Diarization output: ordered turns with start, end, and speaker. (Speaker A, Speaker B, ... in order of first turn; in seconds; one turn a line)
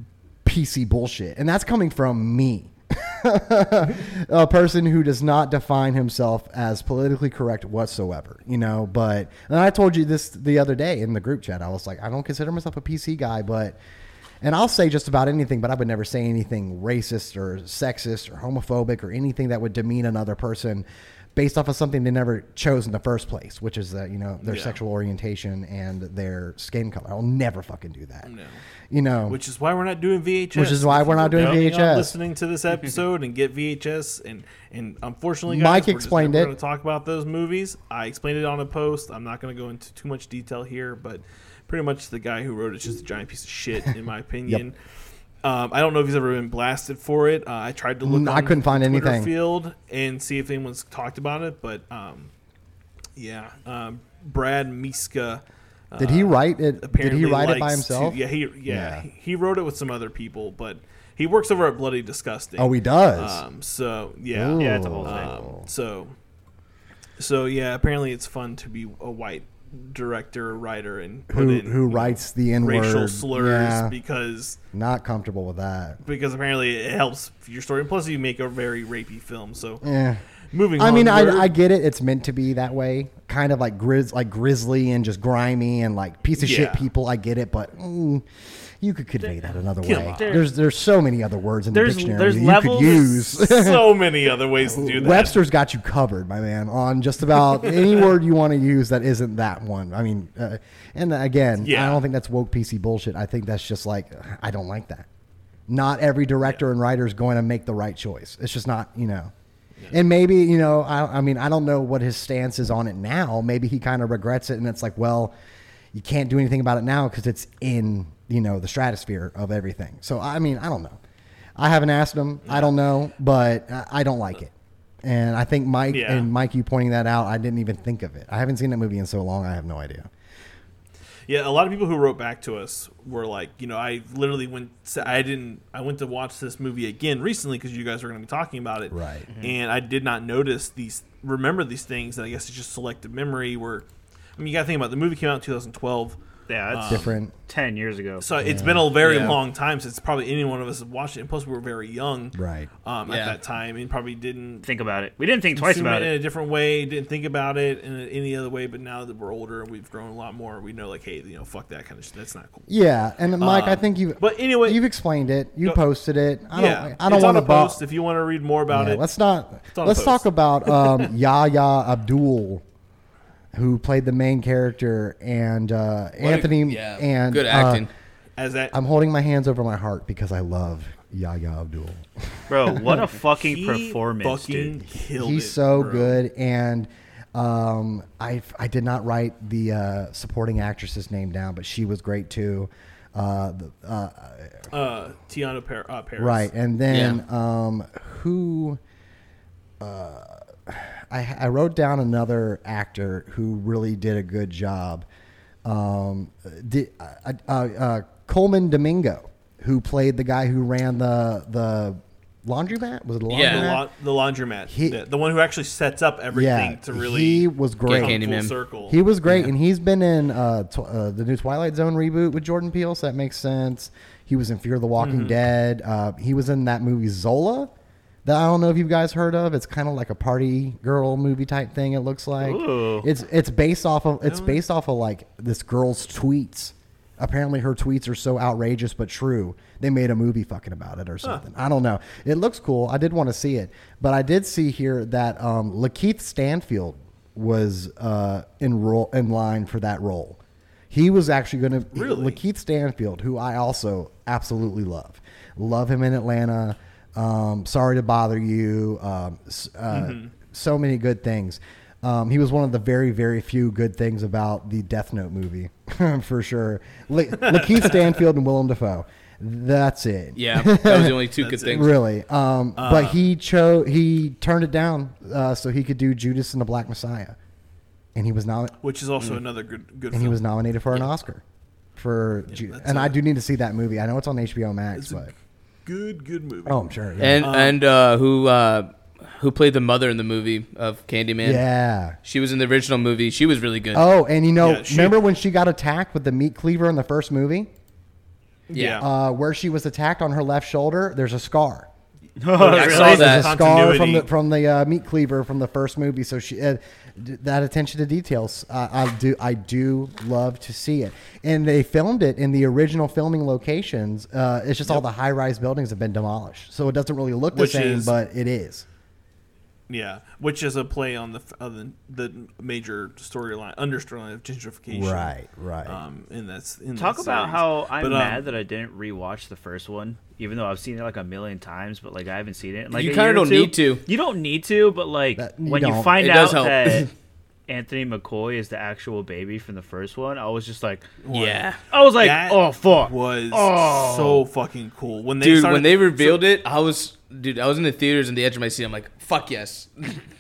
Speaker A: 0.5-13.8
Speaker A: 14.4-28.3
Speaker B: 24.4-24.8
Speaker B: 28.2-28.6
Speaker A: 28.9-29.4
Speaker B: 29.3-44.8
Speaker A: 30.5-32.1
Speaker A: 35.5-36.5
Speaker B: 45.4-52.3
Speaker A: 48.0-49.3
Speaker B: 53.2-66.1
Speaker A: 56.0-59.1
Speaker A: 62.6-63.4
Speaker A: 64.3-65.7
Speaker C: 64.6-65.3
Speaker B: 67.2-74.6
Speaker A: 71.3-73.9
Speaker A: 74.7-76.0
Speaker B: 76.0-79.8
Speaker A: 79.8-80.2
Speaker B: 80.5-81.5
Speaker A: 80.8-94.0
Speaker B: 86.4-86.9
Speaker B: 89.8-90.4
Speaker C: 89.8-90.5
Speaker C: 91.7-93.2
Speaker B: 93.1-95.4
Speaker A: 94.6-105.1
Speaker B: 101.6-102.0
Speaker A: 105.7-109.3
Speaker A: 109.9-115.3
Speaker A: 115.9-121.0
Speaker A: 121.6-124.5
Speaker B: 122.5-122.7
Speaker A: 125.0-130.1
Speaker B: 125.9-126.3
Speaker B: 131.3-146.2
Speaker A: 138.9-139.3
Speaker D: 139.3-139.6
Speaker C: 146.5-148.2
Speaker B: 146.7-147.2
Speaker A: 146.9-147.3
Speaker B: 148.2-154.7
Speaker A: 148.4-148.9
Speaker D: 149.0-149.4
Speaker A: 152.3-152.7
Speaker D: 153.1-153.4
Speaker C: 154.6-156.1
Speaker B: 155.5-162.7
Speaker A: 162.7-167.8
Speaker B: 163.4-164.8
Speaker B: 166.5-169.0
Speaker A: 168.7-172.6
Speaker B: 169.7-171.1
Speaker A: 173.5-177.9
Speaker D: 176.2-177.9
Speaker B: 178.4-178.8
Speaker A: 178.7-183.0
Speaker C: 182.5-184.7
Speaker B: 183.4-186.2
Speaker A: 185.2-194.7
Speaker B: 194.7-196.5
Speaker A: 196.2-198.8
Speaker D: 196.9-197.2
Speaker A: 199.8-205.1
Speaker A: 205.7-213.9
Speaker D: 213.3-213.8
Speaker B: 213.4-219.0
Speaker A: 214.7-215.0
Speaker A: 216.3-218.2
Speaker D: 217.9-218.6
Speaker A: 218.9-227.7
Speaker D: 219.3-219.5
Speaker B: 225.0-225.4
Speaker A: 228.2-250.4
Speaker C: 232.4-233.1
Speaker B: 234.2-234.6
Speaker A: 250.9-277.4
Speaker B: 251.9-252.4
Speaker B: 259.9-260.3
Speaker D: 270.4-271.9
Speaker B: 271.4-271.9
Speaker B: 272.8-273.2
Speaker A: 278.1-278.8
Speaker B: 278.8-280.4
Speaker A: 280.1-281.4
Speaker A: 282.0-285.3
Speaker B: 282.5-283.2
Speaker B: 284.9-285.3
Speaker B: 285.9-286.8
Speaker A: 286.7-287.5
Speaker D: 287.2-291.6
Speaker B: 287.4-287.8
Speaker A: 291.4-292.2
Speaker D: 292.2-294.0
Speaker A: 293.9-297.7
Speaker B: 294.6-295.2
Speaker B: 298.7-299.1
Speaker D: 298.7-299.1
Speaker A: 299.0-301.9
Speaker C: 302.4-303.4
Speaker B: 302.5-304.3
Speaker D: 302.6-303.5
Speaker A: 303.0-318.9
Speaker B: 317.5-318.1
Speaker B: 319.9-325.3
Speaker A: 324.9-326.0
Speaker B: 325.9-328.5
Speaker C: 327.0-337.1
Speaker D: 332.9-334.0
Speaker A: 335.4-336.2
Speaker D: 336.2-337.1
Speaker C: 337.7-341.1
Speaker B: 341.2-341.6
Speaker D: 341.3-341.8
Speaker C: 341.9-344.4
Speaker B: 342.2-346.4
Speaker D: 345.4-350.2